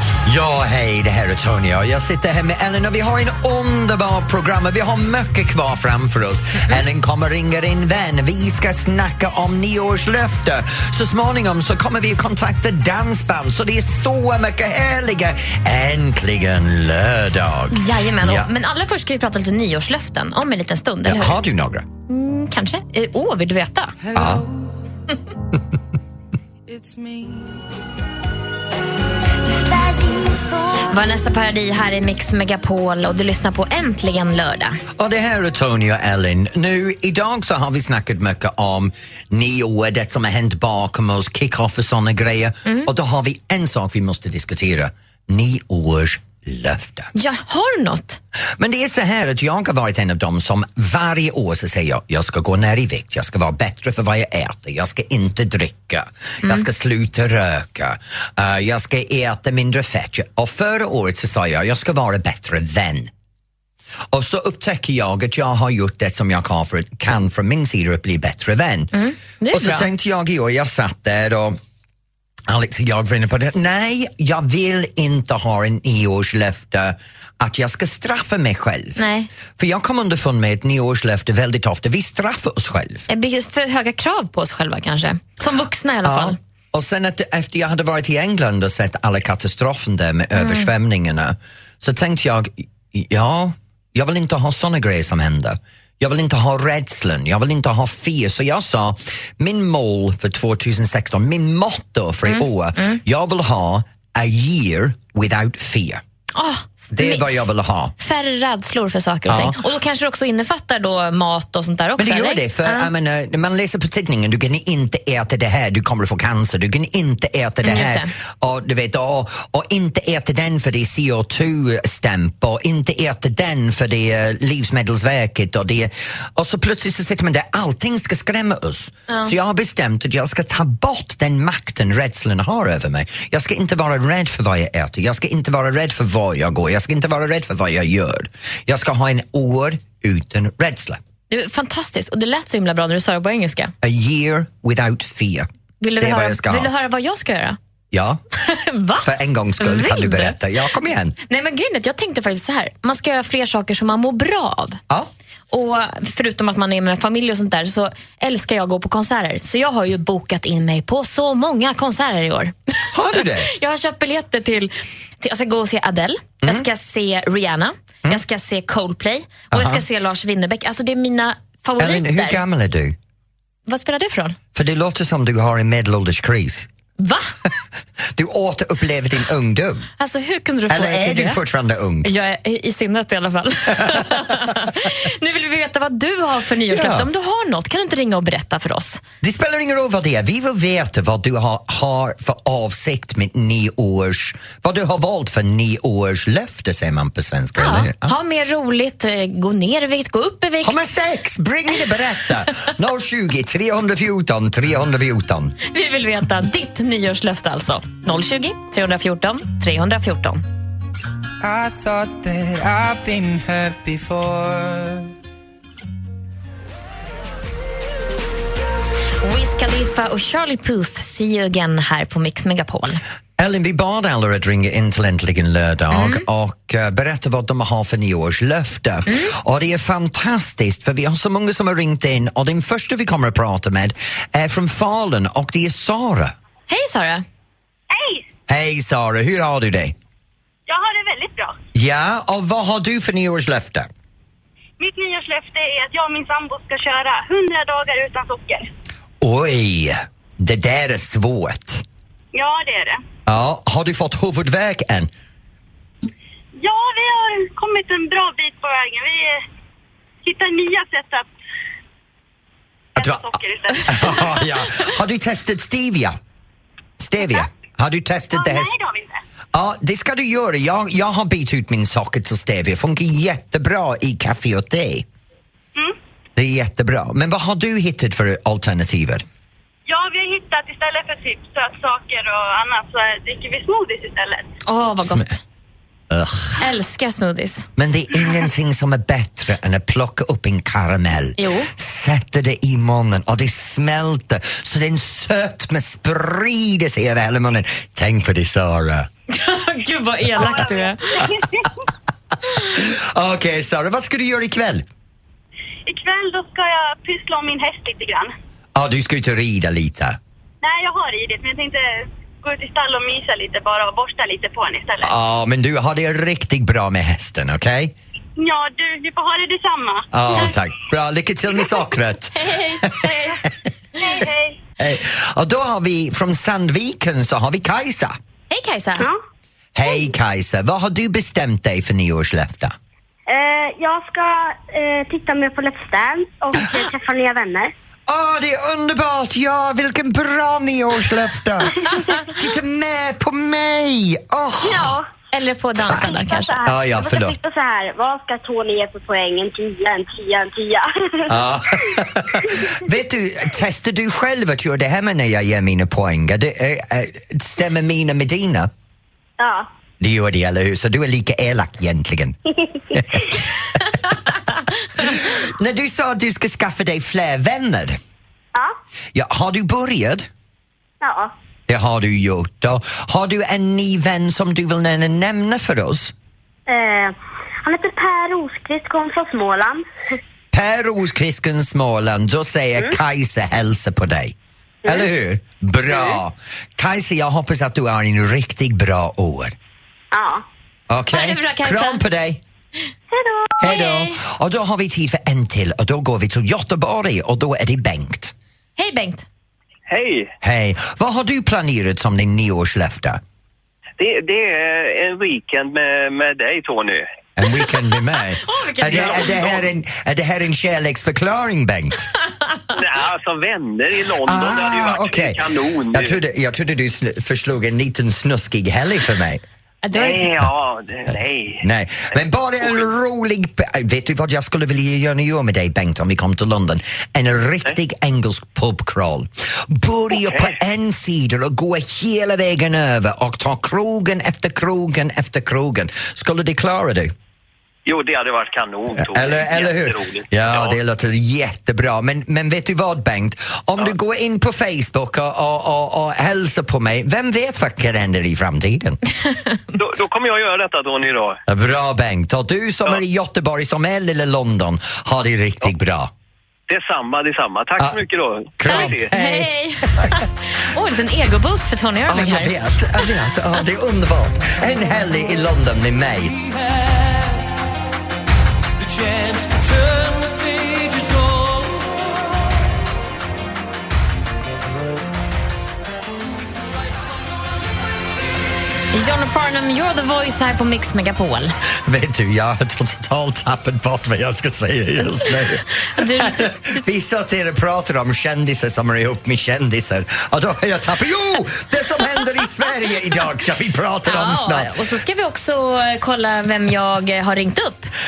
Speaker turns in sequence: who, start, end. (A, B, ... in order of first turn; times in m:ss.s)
0:00.2-0:18.5 A
0:17.7-0:21.4 B
0:21.0-0:21.8 A
0:22.1-0:23.9 B
0:24.0-0:24.6 C
0:24.1-0:24.4 A
0:26.7-0:27.5 C
0:30.8-0:34.8 B
0:35.0-0:47.1 A
0:47.1-0:48.2 B
0:48.6-1:03.1 A
1:04.1-1:08.9 A
1:08.9-1:09.9 B
1:09.5-1:11.6 A
1:12.5-1:19.0 A
1:19.0-1:19.3 B
1:19.6-1:23.1 A
1:23.1-1:26.4 B
1:26.0-1:46.0 A
1:30.4-1:30.7 B
1:42.2-1:43.0 B
1:46.3-1:47.3 B
1:46.9-1:47.9 A
1:48.0-1:52.9 B
1:49.3-1:49.6 A
1:52.0-2:21.0 A
1:57.6-1:58.1 B
2:09.1-2:09.3 B
2:21.3-2:23.7 B
2:23.8-2:25.5 A
2:25.8-2:27.6 B
2:26.0-2:26.7 A
2:27.9-2:28.2 A
2:28.4-2:30.4 B
2:29.0-2:31.1 A
2:31.3-2:34.8 B
2:35.5-2:42.5 B
2:42.9-2:43.5 A
2:43.2-2:52.4 B
2:49.5-2:49.8 A
2:51.8-2:53.0 A
2:53.7-2:54.4 B
2:54.5-2:56.7 A
2:57.0-2:57.3 B
2:58.1-2:59.9 A
3:00.0-3:01.4 B
3:00.7-3:02.1 A
3:02.0-3:09.0 B
3:06.7-3:07.1 A
3:09.2-3:18.1 A
3:17.6-3:20.8 B
3:20.6-3:25.6 A
3:25.7-3:30.4 B
3:31.4-3:35.1 C
3:39.2-3:43.0 B
3:43.4-3:56.3 A
3:45.9-3:46.2 B
3:56.7-3:57.2 B
3:57.9-3:58.2 D
3:58.5-3:59.9 A
4:00.7-4:01.6 D
4:01.7-4:03.9 A
4:04.8-4:08.7 D
4:09.2-4:11.8 A
4:12.3-4:13.0 D
4:13.2-4:15.1 A
4:16.6-4:19.4 D
4:20.2-4:21.3 D
4:23.0-4:23.3 A
4:23.0-4:24.5 D
4:23.8-4:26.2 A
4:27.0-4:28.7 A
4:28.3-4:29.2 D
4:29.5-4:35.0 A
4:36.4-4:39.2 A
4:39.8-4:44.5 D
4:44.6-4:45.4 B
4:45.0-4:45.3 A
4:46.1-4:46.6 A
4:46.6-4:47.7 B
4:47.8-4:59.1 A
4:51.4-4:51.7 B
4:59.3-5:01.2 B
5:00.4-5:01.7 D
5:02.6-5:04.8 A
5:05.8-5:08.3 D
5:08.7-5:10.2 A
5:10.6-5:15.1 D
5:15.0-5:17.9 A
5:18.4-5:20.4 D
5:20.1-5:23.1 A
5:22.3-5:23.4 B
5:24.0-5:24.6 D
5:24.8-5:28.1 A
5:28.5-5:29.1 B
5:29.8-5:32.7 A
5:33.3-5:37.7 E
5:38.1-5:45.0 A
5:44.6-5:45.1 E
5:45.3-5:46.6 B
5:45.9-5:47.3 A
5:45.9-5:51.3 E
5:51.3-5:58.7 A
5:59.4-5:59.7 E
6:00.0-6:02.4 A
6:02.9-6:03.3 E
6:02.9-6:04.2 A
6:05.0-6:08.0 A
6:09.1-6:10.3 A
6:11.0-6:11.3 E
6:11.7-6:16.1 A
6:16.7-6:19.9 E
6:20.5-6:24.3 A
6:24.8-6:29.5 A
6:25.9-6:26.2 E
6:30.1-6:30.4 E
6:30.9-6:32.4 A
6:31.1-6:32.0 B
6:33.1-6:33.6 E
6:33.6-6:38.3 A
6:33.6-6:34.2 B
6:38.8-6:39.2 B
6:39.9-6:40.3 F
6:40.4-6:43.2 A
6:44.0-6:47.1 F
6:47.4-6:52.1 A
6:48.4-6:49.6 B
6:48.8-6:49.6 F
6:52.7-6:56.2 F
6:54.2-6:59.4 A
6:59.8-7:00.3 B
6:59.9-7:01.7 F
7:01.6-7:17.1 A
7:02.6-7:02.9 F
7:10.1-7:10.5 F
7:17.8-7:20.8 F
7:19.0-7:29.0 A
7:29.8-7:31.4 F
7:31.5-7:36.1 A
7:36.7-7:39.1 F
7:38.5-7:40.1 A
7:38.7-7:42.6 B
7:42.1-7:46.3 A
7:46.9-7:47.2 C
7:48.8-7:52.0 C
7:58.9-8:01.5 B
8:01.8-8:14.8 A
8:05.0-8:06.4 B
8:14.0-8:17.9 B